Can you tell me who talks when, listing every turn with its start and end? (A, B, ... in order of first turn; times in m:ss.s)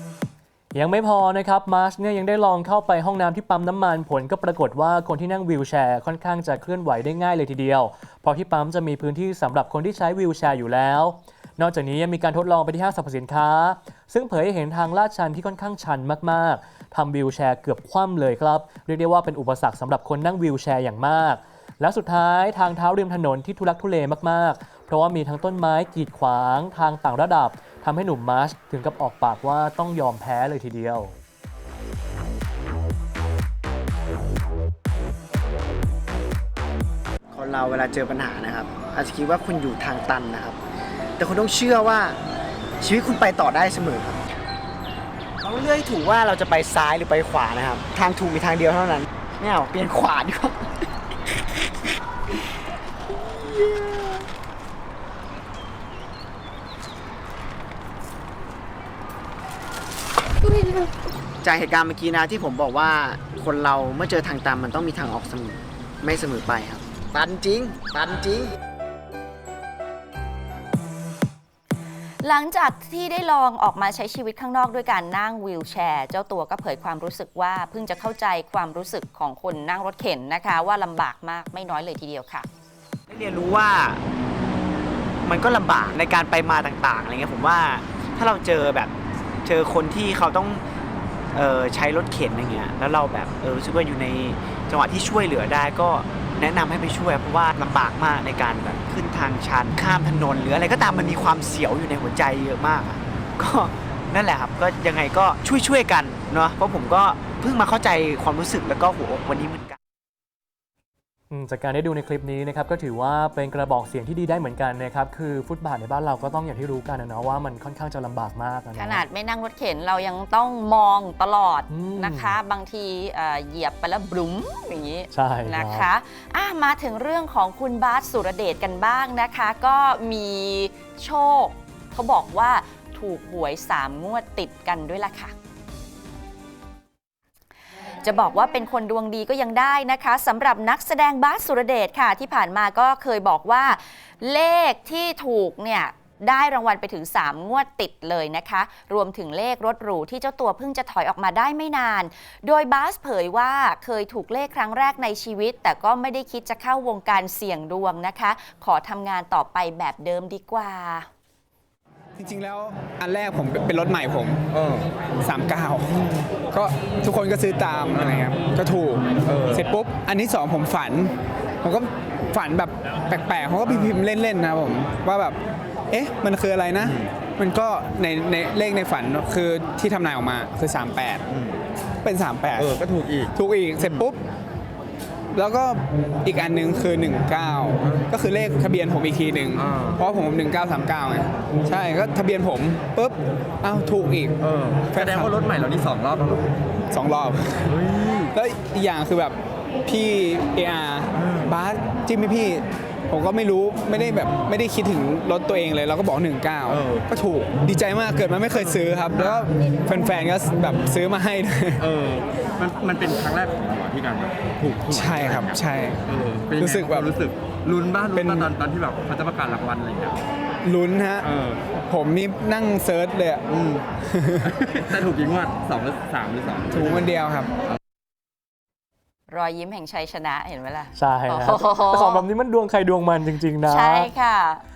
0:00.7-0:31.1 A
0:37.3-0:40.6 B
0:41.2-0:42.2 B
0:42.8-0:44.2 B
0:45.4-0:50.7 B
0:53.2-0:54.2 B
1:00.4-1:00.9 B
1:01.4-1:08.5 B
1:12.2-1:22.5 C
1:23.1-1:24.0 B
1:25.2-1:28.9 B
1:29.4-1:30.6 B
1:31.3-1:49.8 B
1:51.3-1:59.0 A
1:58.8-2:15.3 C
2:01.7-2:02.4 A
2:05.1-2:05.9 A
2:18.0-2:41.1 C
2:42.2-2:44.4 D
2:44.5-2:44.9 E
2:45.2-2:55.4 D
2:47.9-2:48.2 E
2:49.2-2:49.7 E
2:53.6-2:54.0 E
2:55.9-3:01.2 D
2:56.8-2:57.1 E
3:01.3-3:01.6 E
3:02.0-3:04.2 D
3:02.6-3:03.3 E
3:05.3-3:14.4 D
3:09.5-3:10.0 E
3:14.4-3:16.5 E
3:14.9-3:15.5 D
3:16.9-3:17.8 D
3:17.7-3:18.3 E
3:18.3-3:32.0 D
3:26.7-3:27.1 E
3:28.6-3:29.4 E
3:31.8-3:40.2 E
3:34.8-3:37.2 D
3:38.1-3:38.5 D
3:40.6-3:41.3 D
3:41.2-3:41.7 E
3:41.9-3:43.4 D
3:43.5-3:43.9 E
3:44.0-3:44.5 D
3:44.4-3:47.1 E
3:46.7-3:47.5 D
3:49.3-3:52.2 C
3:50.9-3:54.1 A
3:53.6-3:54.6 C